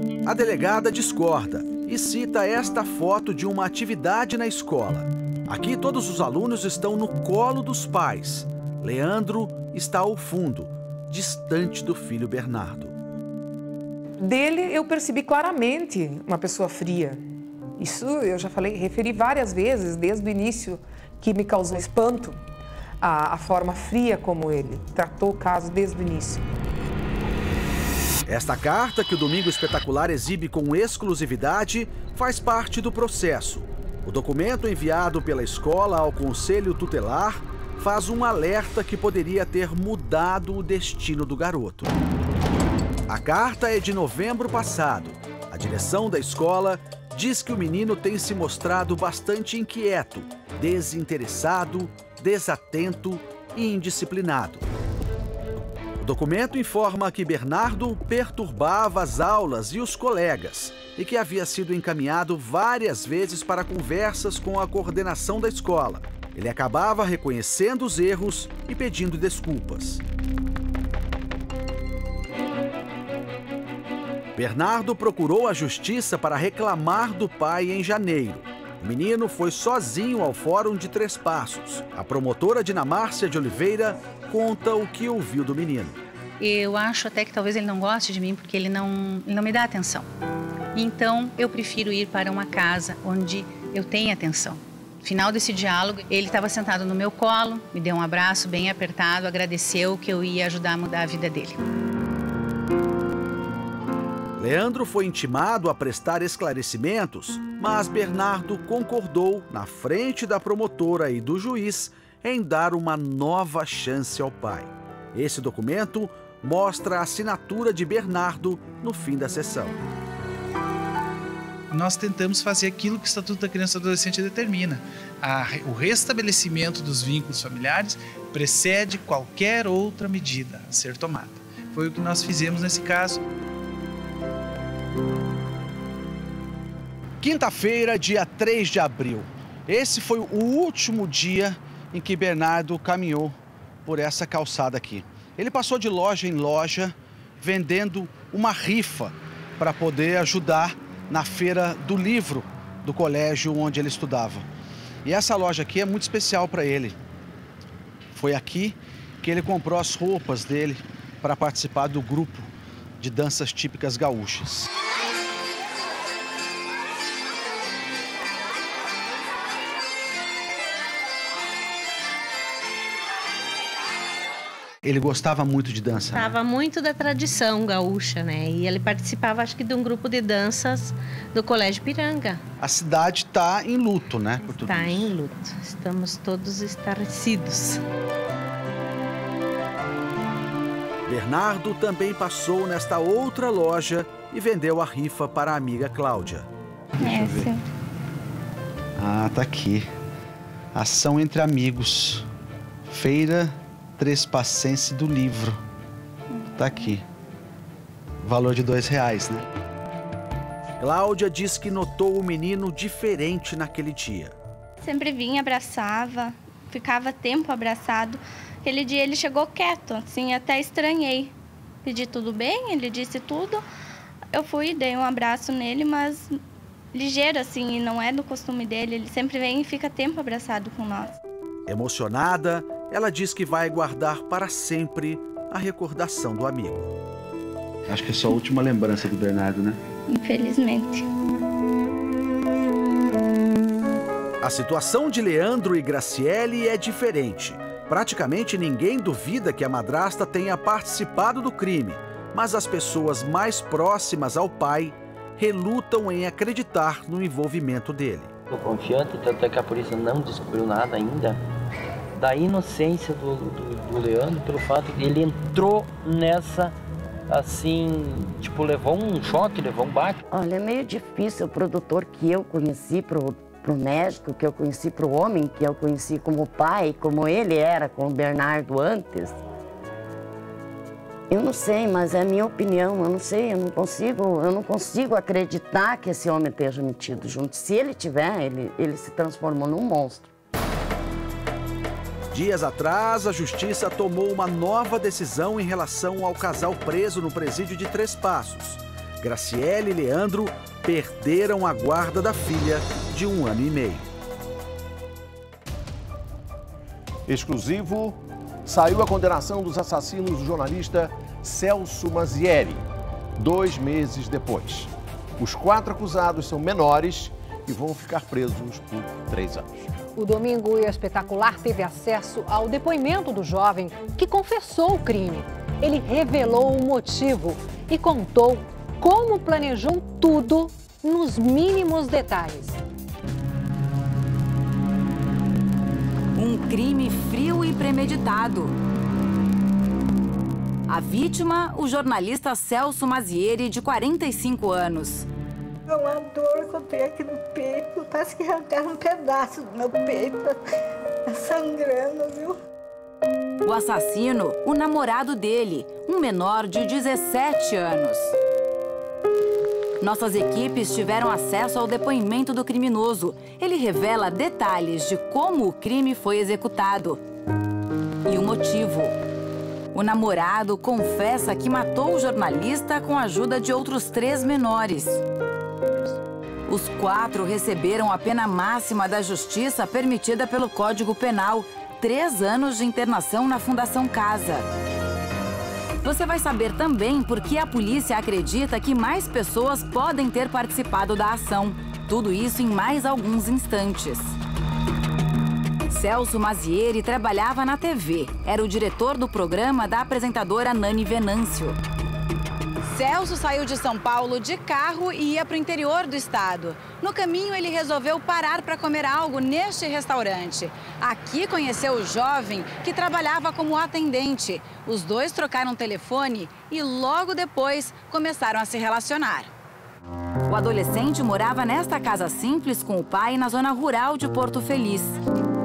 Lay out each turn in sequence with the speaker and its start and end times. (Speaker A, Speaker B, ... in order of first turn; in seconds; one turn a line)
Speaker A: 0.2-12.9
Speaker B: 14.2-17.2
Speaker B: 17.8-22.4
Speaker B: 23.0-26.4
Speaker A: 28.3-41.9
Speaker A: 43.1-54.6
Speaker A: 56.0-70.0
Speaker A: 74.3-86.0
Speaker C: 86.4-90.0
Speaker D: 87.1-87.8
Speaker D: 88.3-88.8
Speaker C: 90.8-94.5
Speaker D: 91.1-91.6
Speaker D: 93.9-94.3
Speaker D: 95.1-97.1
Speaker C: 95.2-101.5
Speaker D: 98.7-98.9
Speaker D: 99.5-100.8
Speaker A: 104.4-119.8
Speaker E: 121.7-133.2
Speaker A: 137.2-154.4
Speaker A: 155.0-157.0
Speaker A: 158.1-164.7
Speaker A: 174.8-176.3
Speaker F: 176.1-182.4
Speaker A: 182.6-185.0
Speaker F: 184.4-187.8
Speaker A: 191.1-196.5
Speaker A: 197.0-197.5
Speaker G: 197.0-197.6
Speaker A: 199.0-199.9
Speaker A: 200.7-202.2
Speaker A: 202.9-205.6
Speaker A: 206.6-207.0
Speaker A: 208.2-209.4
Speaker A: 210.8-214.3
Speaker G: 214.8-221.3
Speaker G: 221.8-223.6
Speaker G: 224.3-226.4
Speaker G: 226.9-231.1
Speaker A: 231.7-236.9
Speaker A: 237.9-239.8
Speaker G: 240.1-241.0
Speaker A: 244.4-258.3
Speaker H: 258.5-261.4
Speaker H: 262.1-266.7
Speaker H: 267.3-270.2
Speaker I: 270.3-279.4
Speaker I: 281.3-290.3
Speaker A: 292.3-304.1
Speaker J: 307.3-312.8
Speaker J: 313.4-319.7
Speaker K: 320.1-332.8
Speaker L: 336.3-338.7
Speaker L: 340.9-345.3
Speaker D: 345.9-350.5
Speaker D: 351.3-352.5
Speaker L: 353.6-358.3
Speaker L: 360.0-367.2
Speaker L: 368.2-369.1
Speaker L: 369.9-375.2
Speaker L: 376.7-384.7
Speaker L: 386.0-394.3
Speaker L: 395.9-401.8
Speaker L: 402.8-419.5
Speaker L: 420.5-425.1